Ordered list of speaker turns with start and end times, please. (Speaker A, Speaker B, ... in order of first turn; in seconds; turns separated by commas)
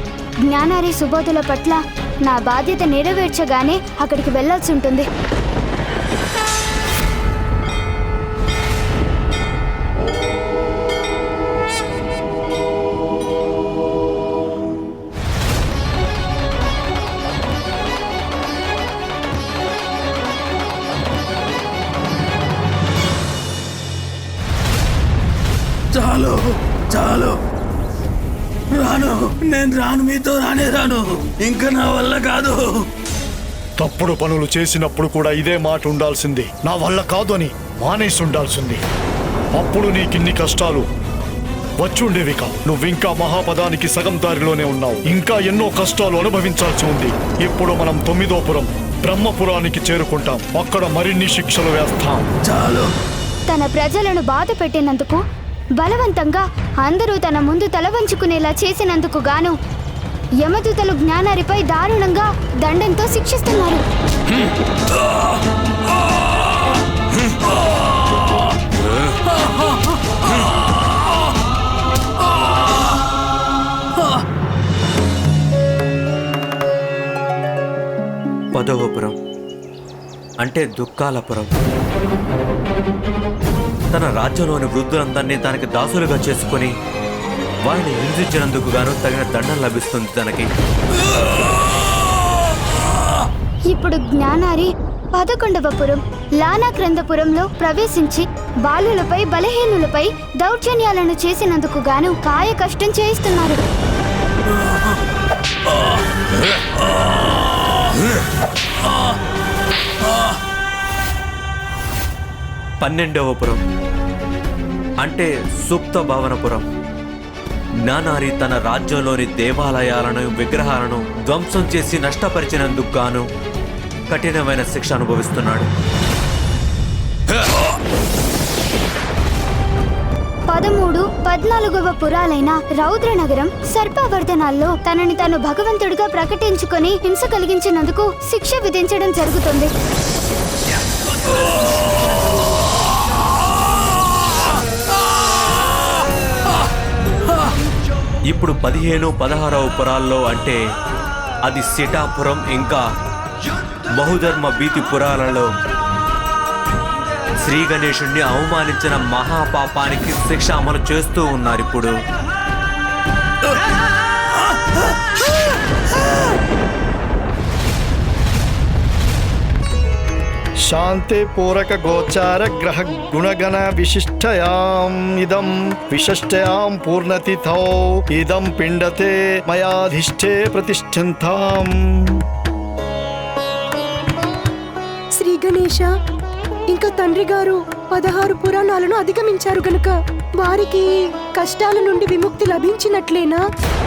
Speaker A: 0.5-5.1, Speaker B: 25.9-26.4, Speaker B: 26.9-27.3, Speaker B: 28.7-32.8, Speaker C: 33.8-38.8, Speaker C: 39.5-40.9, Speaker C: 41.8-52.3, Speaker B: 52.4-52.9, Speaker A: 53.5-55.2, Speaker A: 55.8-59.5, Speaker A: 60.4-63.8, Speaker B: 65.0-65.3, Speaker B: 65.9-66.6, Speaker B: 67.5-68.5, Speaker B: 69.2-70.9, Speaker D: 78.5-79.1, Speaker D: 80.4-81.5, Speaker D: 83.9-86.7, Speaker D: 87.7-90.5, Speaker B: 91.0-92.2, Speaker A: 93.7-103.6, Speaker B: 104.5-105.0, Speaker B: 105.7-106.0, Speaker B: 106.8-107.9, Speaker B: 108.8-109.2, Speaker B: 110.0-110.4, Speaker D: 112.8-113.6, Speaker D: 115.0-116.6, Speaker D: 117.8-123.2, Speaker D: 124.1-125.7, Speaker A: 130.5-139.7, Speaker D: 148.3-150.6, Speaker D: 151.4-152.8, Speaker D: 154.0-155.5, Speaker D: 157.4-161.9, Speaker C: 170.7-182.2, Speaker E: 185.2-185.9, Speaker E: 186.7-193.4